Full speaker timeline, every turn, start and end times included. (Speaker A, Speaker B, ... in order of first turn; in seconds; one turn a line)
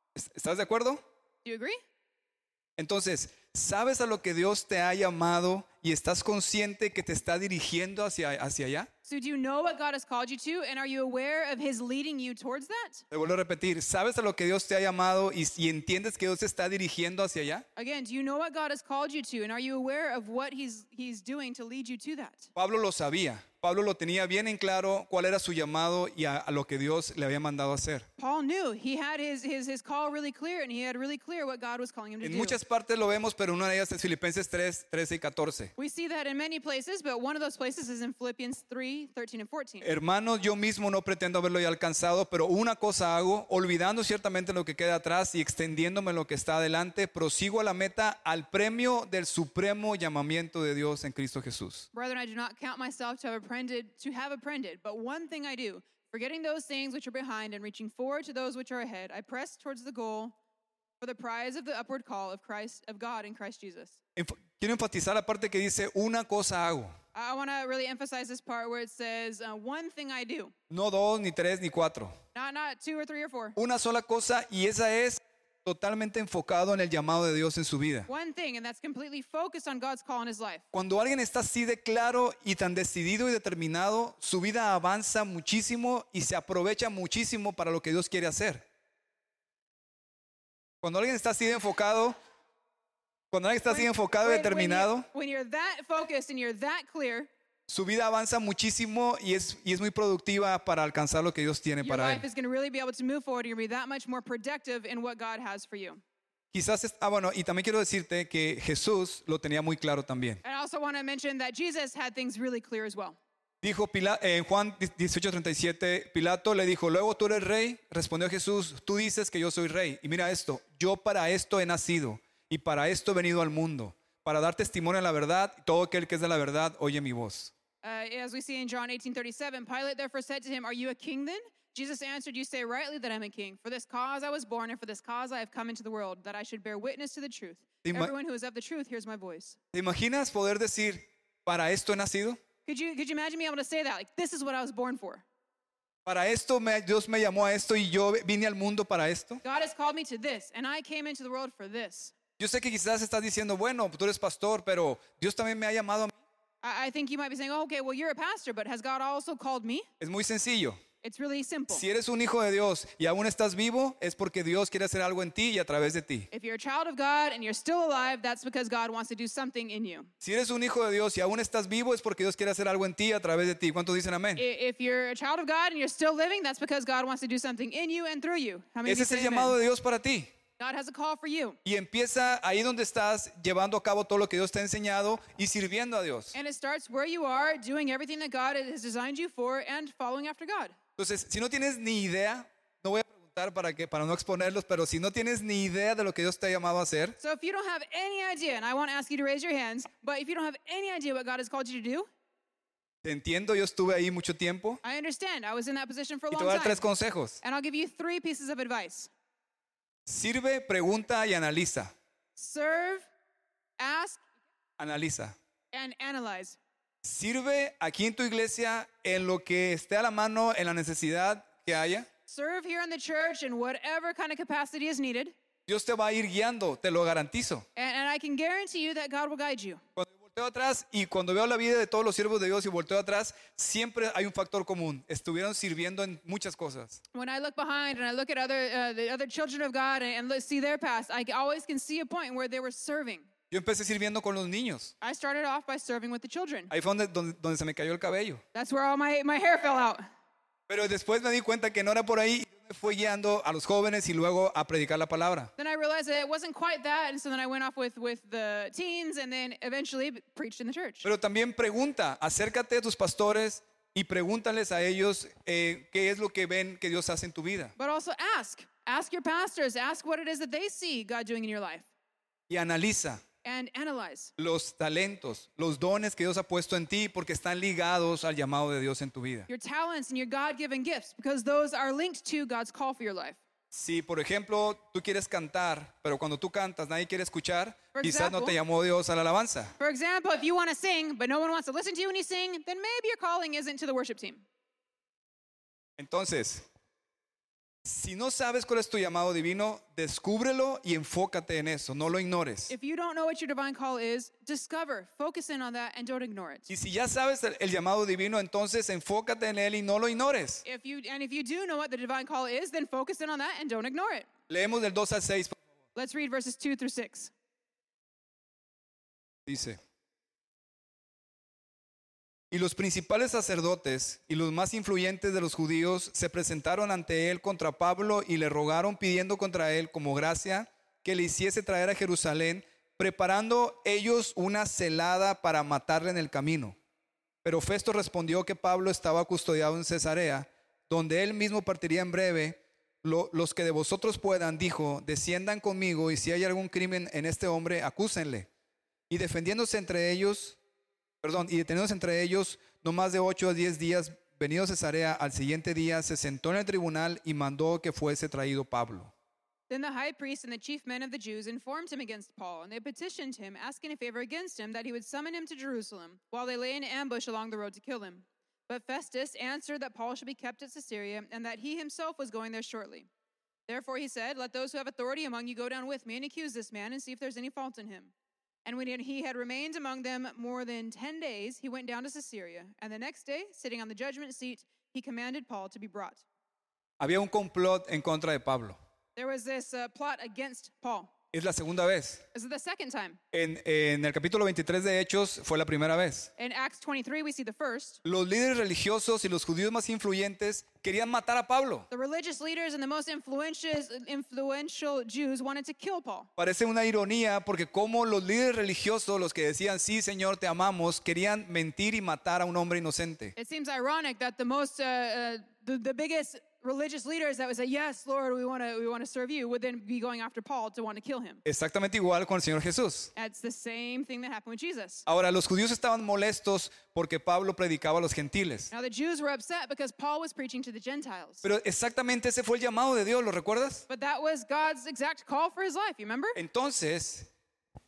Speaker A: 0.1-1.0
Speaker B: 1.4-1.8
Speaker A: 2.8-8.9
Speaker B: 9.0-13.0
Speaker A: 13.1-17.6
Speaker B: 17.8-22.5
Speaker A: 22.6-28.1
Speaker B: 28.2-32.6
Speaker A: 32.2-35.7
Speaker B: 35.8-39.9
Speaker A: 39.8-51.9
Speaker B: 51.9-60.3
Speaker B: 61.0-64.0
Speaker A: 64.2-66.9
Speaker B: 67.1-70.5
Speaker A: 70.7-72.1
Speaker B: 72.3-73.5
Speaker A: 73.6-78.1
Speaker B: 78.1-80.6
Speaker A: 80.7-88.6
Speaker A: 90.8-92.2
Speaker A: 93.3-95.1
Speaker B: 93.7-97.3
Speaker A: 97.7-102.2
Speaker B: 101.8-106.0
Speaker A: 106.5-110.4
Speaker B: 110.4-113.2
Speaker A: 113.6-127.5
Speaker B: 127.8-139.6
Speaker A: 137.8-138.1
Speaker A: 139.7-142.4
Speaker B: 142.7-145.2
Speaker A: 146.1-149.4
Speaker B: 149.4-152.1
Speaker A: 152.4-156.1
Speaker B: 156.6-159.9
Speaker A: 160.0-160.8
Speaker B: 161.0-161.8
Speaker A: 161.7-166.3
Speaker B: 166.3-170.1
Speaker A: 170.2-174.4
Speaker B: 174.3-179.6
Speaker A: 178.8-180.3
Speaker B: 180.6-181.6
Speaker A: 181.6-186.3
Speaker B: 186.3-190.8
Speaker A: 191.0-197.2
Speaker B: 197.2-202.1
Speaker A: 203.0-204.8
Speaker B: 204.8-206.8
Speaker A: 206.3-207.4
Speaker B: 207.4-209.1
Speaker A: 210.1-211.9
Speaker B: 212.3-213.1
Speaker B: 213.8-214.2
Speaker A: 214.8-215.3
Speaker B: 215.7-216.6
Speaker A: 217.0-222.1
Speaker B: 222.3-225.3
Speaker A: 225.7-227.7
Speaker B: 227.8-229.8
Speaker A: 229.9-237.0
Speaker B: 237.1-243.3
Speaker A: 243.5-244.9
Speaker B: 245.0-246.7
Speaker A: 246.7-248.4
Speaker B: 248.5-250.0
Speaker A: 250.7-255.5
Speaker B: 255.6-261.1
Speaker A: 261.0-267.7
Speaker B: 267.8-271.9
Speaker A: 272.5-273.2
Speaker B: 273.4-274.3
Speaker A: 274.4-279.5
Speaker B: 279.5-283.4
Speaker A: 283.7-289.7
Speaker B: 287.9-288.6
Speaker B: 289.8-294.4
Speaker A: 296.0-296.7
Speaker A: 297.8-302.7
Speaker B: 302.7-306.7
Speaker A: 306.7-310.6
Speaker B: 310.6-314.3
Speaker A: 314.5-315.6
Speaker B: 315.9-317.3
Speaker A: 319.4-319.8
Speaker A: 322.5-336.7
Speaker A: 337.4-348.5
Speaker A: 349.1-350.6
Speaker A: 351.2-359.1
Speaker B: 359.7-373.1
Speaker B: 373.7-378.1
Speaker B: 378.6-386.2
Speaker A: 387.0-388.8
Speaker B: 389.1-391.1
Speaker A: 391.3-392.2
Speaker B: 392.3-393.2
Speaker A: 393.3-396.3
Speaker B: 396.4-398.0
Speaker A: 398.0-401.9
Speaker B: 401.9-406.3
Speaker A: 406.4-413.3
Speaker B: 413.4-421.4
Speaker A: 421.4-423.1
Speaker B: 423.1-425.1
Speaker A: 425.1-428.7
Speaker B: 428.7-431.4
Speaker A: 431.4-433.8
Speaker B: 433.9-436.4
Speaker A: 436.3-437.3